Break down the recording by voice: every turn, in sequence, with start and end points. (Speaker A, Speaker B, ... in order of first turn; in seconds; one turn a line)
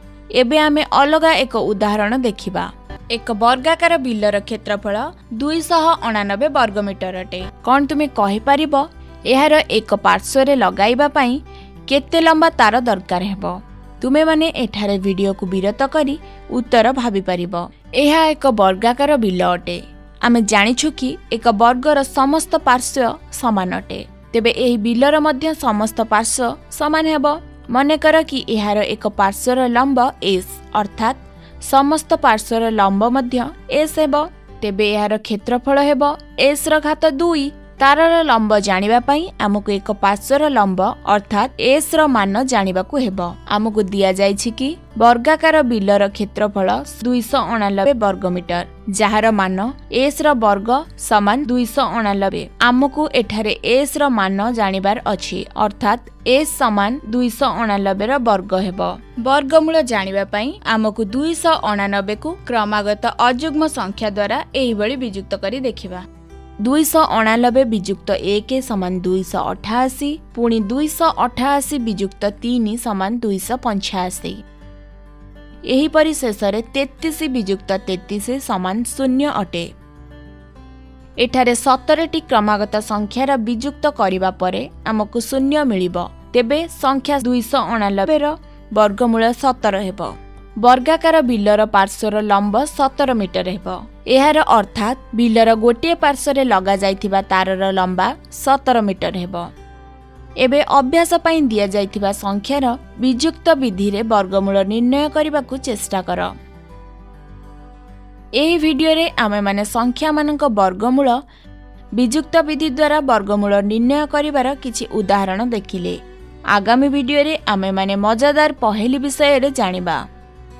Speaker A: 0.3-66.0
Speaker A: 66.6-74.4
Speaker A: 75.7-79.7
Speaker A: 81.2-99.5
Speaker A: 100.4-106.3
Speaker A: 108.4-111.2
Speaker A: 111.9-116.0
Speaker A: 116.5-120.0